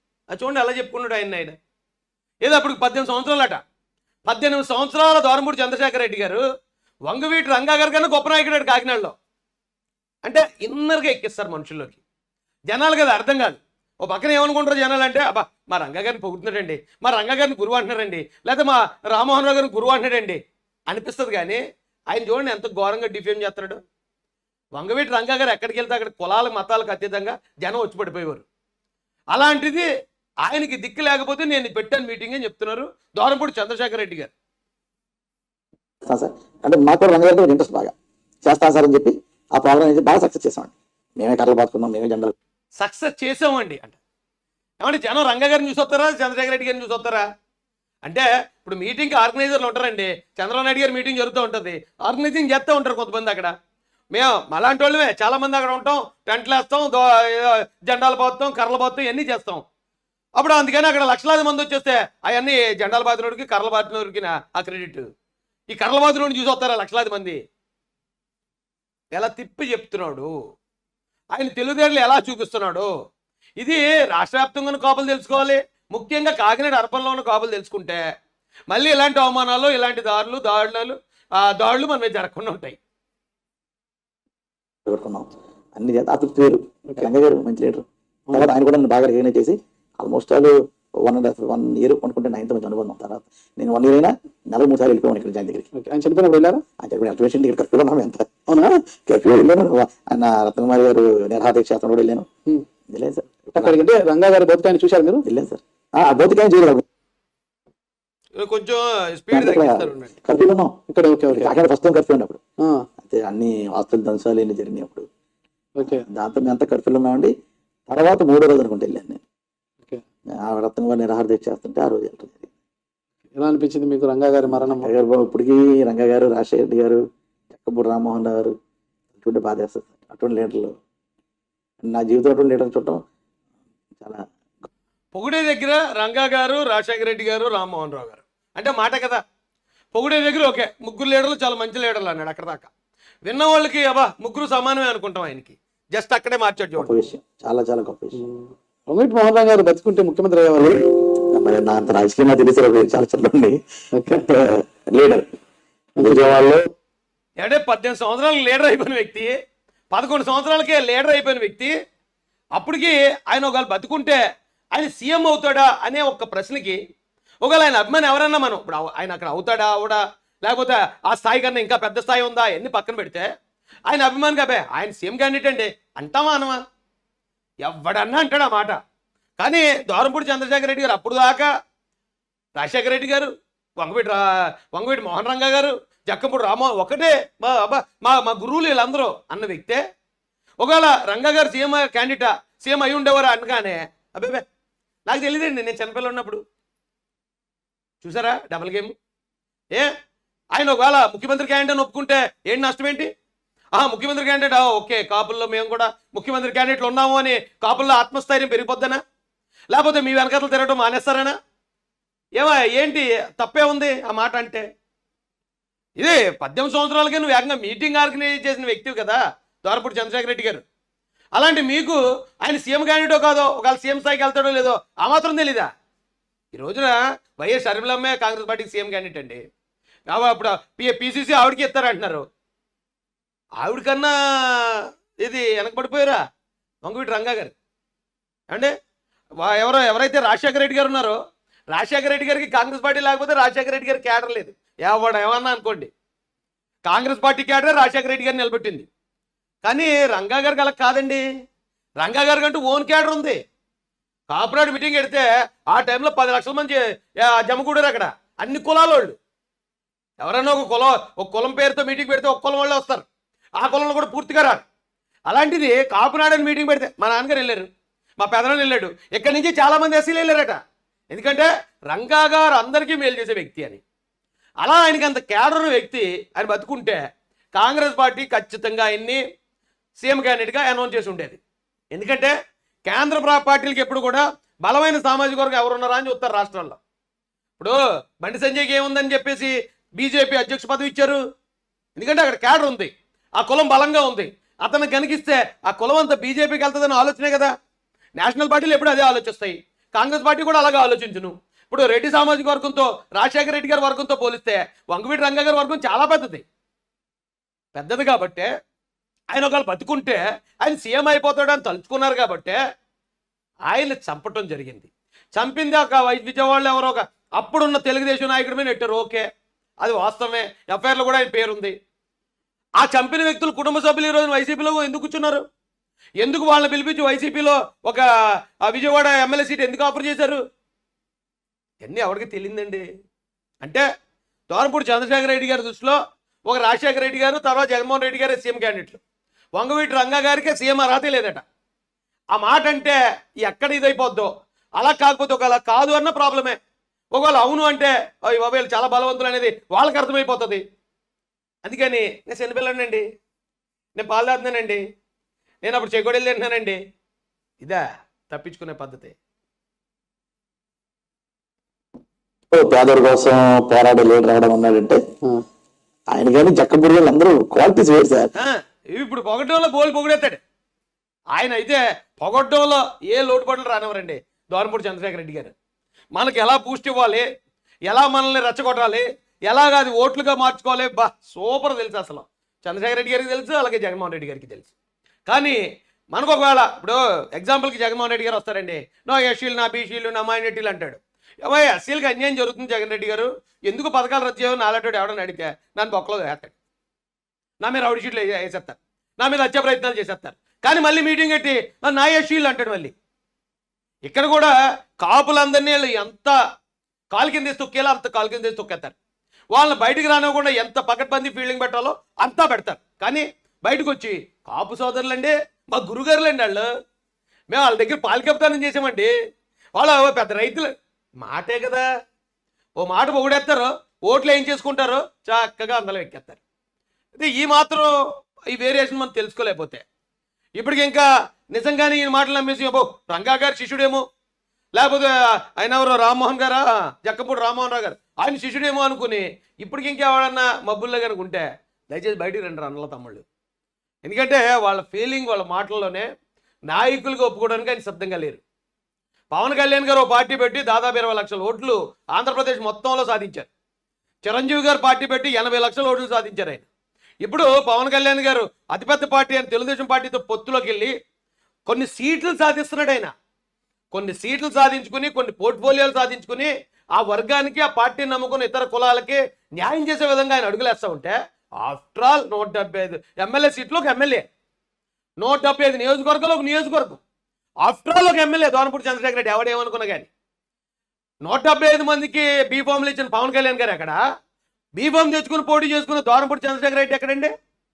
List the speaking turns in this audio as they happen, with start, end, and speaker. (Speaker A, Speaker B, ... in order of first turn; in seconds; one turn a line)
Speaker A: 0.3-1.6
Speaker A: 2.4-3.6
Speaker A: 4.2-6.4
Speaker A: 7.0-9.1
Speaker A: 10.2-12.0
Speaker A: 12.7-21.6
Speaker A: 22.1-23.8
Speaker A: 24.8-28.4
Speaker A: 29.3-29.9
Speaker A: 30.4-34.3
Speaker B: 36.0-37.9
Speaker B: 38.4-42.4
Speaker A: 42.8-44.0
Speaker A: 44.8-47.2
Speaker A: 48.0-53.5
Speaker A: 54.1-59.6
Speaker A: 60.4-65.1
Speaker A: 65.7-67.4
Speaker A: 69.1-70.3
Speaker A: 71.3-72.9
Speaker A: 73.6-78.0
Speaker A: 78.7-82.8
Speaker B: 84.9-95.7
Speaker C: 95.7-96.6
Speaker B: 96.8-98.2
Speaker C: 98.5-98.8
Speaker B: 99.0-102.2
Speaker B: 102.9-103.8
Speaker C: 103.6-105.2
Speaker B: 105.2-106.8
Speaker A: 108.4-110.2
Speaker B: 109.3-110.8
Speaker C: 110.3-111.6
Speaker B: 111.3-112.4
Speaker C: 112.6-112.9
Speaker B: 113.0-115.0
Speaker C: 115.8-116.0
Speaker B: 115.8-117.3
Speaker B: 117.9-119.2
Speaker B: 120.4-122.5
Speaker C: 123.3-124.9
Speaker B: 124.5-128.5
Speaker B: 129.2-130.7
Speaker B: 131.8-133.0
Speaker A: 135.1-139.2
Speaker A: 139.9-142.7
Speaker A: 143.2-147.0
Speaker B: 146.8-148.2
Speaker C: 148.1-150.9
Speaker B: 151.3-153.6
Speaker C: 154.0-154.2
Speaker B: 154.1-155.2
Speaker C: 156.0-156.4
Speaker B: 156.0-156.7
Speaker A: 157.4-159.3
Speaker A: 159.9-161.7
Speaker A: 162.6-164.2
Speaker A: 164.7-166.8
Speaker A: 167.4-173.3
Speaker A: 173.9-176.6
Speaker A: 177.6-178.8
Speaker A: 179.4-181.5
Speaker A: 182.6-189.8
Speaker A: 190.6-194.4
Speaker A: 195.1-196.4
Speaker A: 198.0-198.9
Speaker A: 200.5-203.1
Speaker A: 203.7-209.0
Speaker A: 209.7-211.4
Speaker A: 212.4-214.6
Speaker A: 216.0-220.6
Speaker A: 221.3-225.7
Speaker A: 226.5-229.4
Speaker A: 230.1-232.2
Speaker A: 233.6-236.2
Speaker A: 236.8-237.5
Speaker A: 239.4-241.2
Speaker A: 241.7-245.9
Speaker A: 246.8-248.9
Speaker A: 249.6-251.2
Speaker A: 252.0-253.4
Speaker A: 254.3-259.1
Speaker A: 260.2-263.1
Speaker A: 263.6-264.6
Speaker A: 265.3-267.7
Speaker A: 268.2-270.6
Speaker A: 271.1-273.8
Speaker A: 274.6-277.0
Speaker A: 277.5-279.2
Speaker A: 280.0-281.4
Speaker A: 281.9-282.3
Speaker A: 282.9-286.8
Speaker A: 287.6-291.2
Speaker A: 292.0-297.5
Speaker A: 298.2-306.4
Speaker A: 307.8-308.5
Speaker A: 309.3-312.6
Speaker A: 313.7-319.2
Speaker A: 319.8-321.7
Speaker A: 322.8-325.4
Speaker A: 326.2-328.0
Speaker A: 328.6-330.4
Speaker A: 331.8-332.9
Speaker A: 334.5-339.0
Speaker A: 339.6-341.4
Speaker A: 342.3-346.6
Speaker A: 347.1-350.6
Speaker A: 351.6-353.0
Speaker A: 354.0-354.8
Speaker A: 355.6-356.8
Speaker A: 357.6-359.1
Speaker B: 362.5-365.0
Speaker B: 366.1-368.3
Speaker A: 368.4-370.4
Speaker A: 371.4-375.5
Speaker A: 376.1-377.2
Speaker A: 377.9-384.7
Speaker A: 385.3-385.6
Speaker A: 386.1-396.6
Speaker A: 397.6-402.9
Speaker A: 404.0-406.4
Speaker A: 407.1-408.9
Speaker A: 409.5-416.7
Speaker A: 417.5-419.1
Speaker A: 419.8-420.7
Speaker A: 421.2-421.9
Speaker A: 422.8-426.4
Speaker A: 427.2-427.9
Speaker A: 428.5-429.8
Speaker A: 430.6-434.0
Speaker A: 434.8-443.2
Speaker A: 444.0-446.1
Speaker A: 446.7-448.4
Speaker A: 449.3-453.5
Speaker A: 454.2-456.7
Speaker A: 457.2-460.9
Speaker A: 461.7-463.1
Speaker A: 463.9-474.2
Speaker A: 475.2-477.0
Speaker A: 477.6-480.1
Speaker A: 481.2-484.0
Speaker A: 484.8-487.3